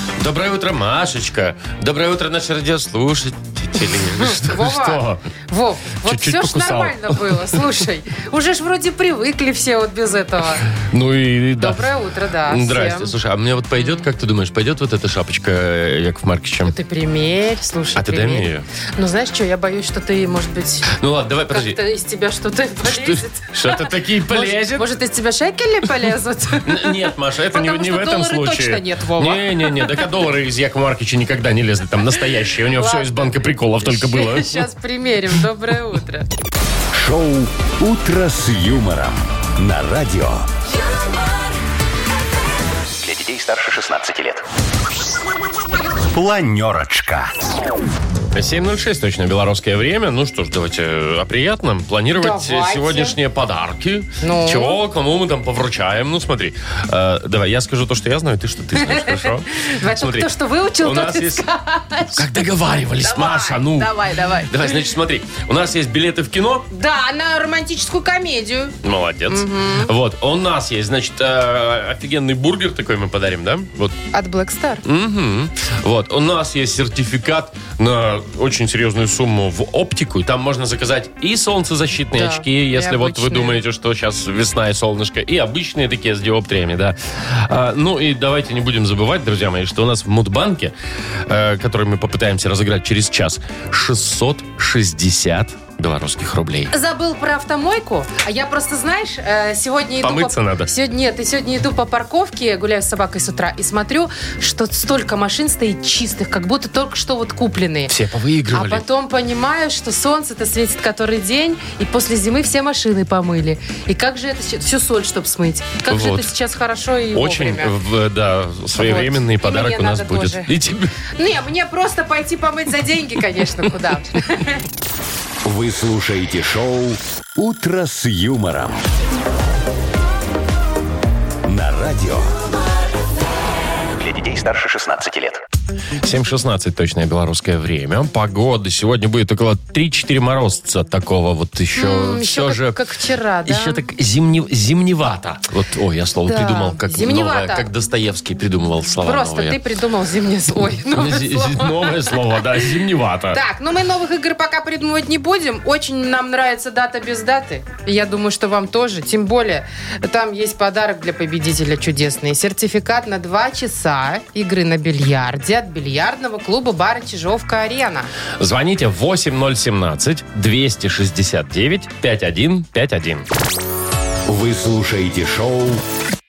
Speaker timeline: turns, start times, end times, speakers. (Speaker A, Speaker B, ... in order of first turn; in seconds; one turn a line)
Speaker A: 0.2-5.2
Speaker B: 4.2-10.6
Speaker A: 6.0-7.6
Speaker A: 10.8-16.7
Speaker B: 11.6-13.1
Speaker B: 13.8-14.1
Speaker B: 16.6-21.0
Speaker A: 17.9-18.7
Speaker A: 20.9-21.8
Speaker B: 21.5-30.0
Speaker A: 22.8-24.9
Speaker A: 26.6-34.7
Speaker B: 32.7-33.3
Speaker B: 33.8-36.2
Speaker C: 36.9-40.5
Speaker C: 43.0-44.4
Speaker C: 46.1-47.3
Speaker A: 48.3-61.4
Speaker B: 52.2-53.1
Speaker B: 54.2-54.8
Speaker B: 58.8-62.2
Speaker A: 62.1-66.7
Speaker B: 63.0-64.8
Speaker B: 66.7-68.8
Speaker A: 68.8-74.0
Speaker B: 69.3-69.9
Speaker B: 74.1-74.8
Speaker A: 74.8-90.7
Speaker B: 82.1-83.6
Speaker A: 91.3-96.7
Speaker B: 96.7-107.9
Speaker A: 100.0-100.7
Speaker A: 107.9-108.8
Speaker B: 108.5-117.7
Speaker A: 115.9-116.3
Speaker A: 117.1-120.9
Speaker B: 118.8-120.5
Speaker B: 121.2-124.6
Speaker C: 125.4-128.8
Speaker C: 131.4-132.3
Speaker C: 134.0-135.4
Speaker A: 136.0-142.8
Speaker B: 141.8-143.8
Speaker A: 143.4-149.6
Speaker B: 146.3-147.7
Speaker B: 149.0-152.2
Speaker A: 150.8-153.4
Speaker B: 153.3-168.1
Speaker A: 168.4-173.2
Speaker C: 174.3-175.8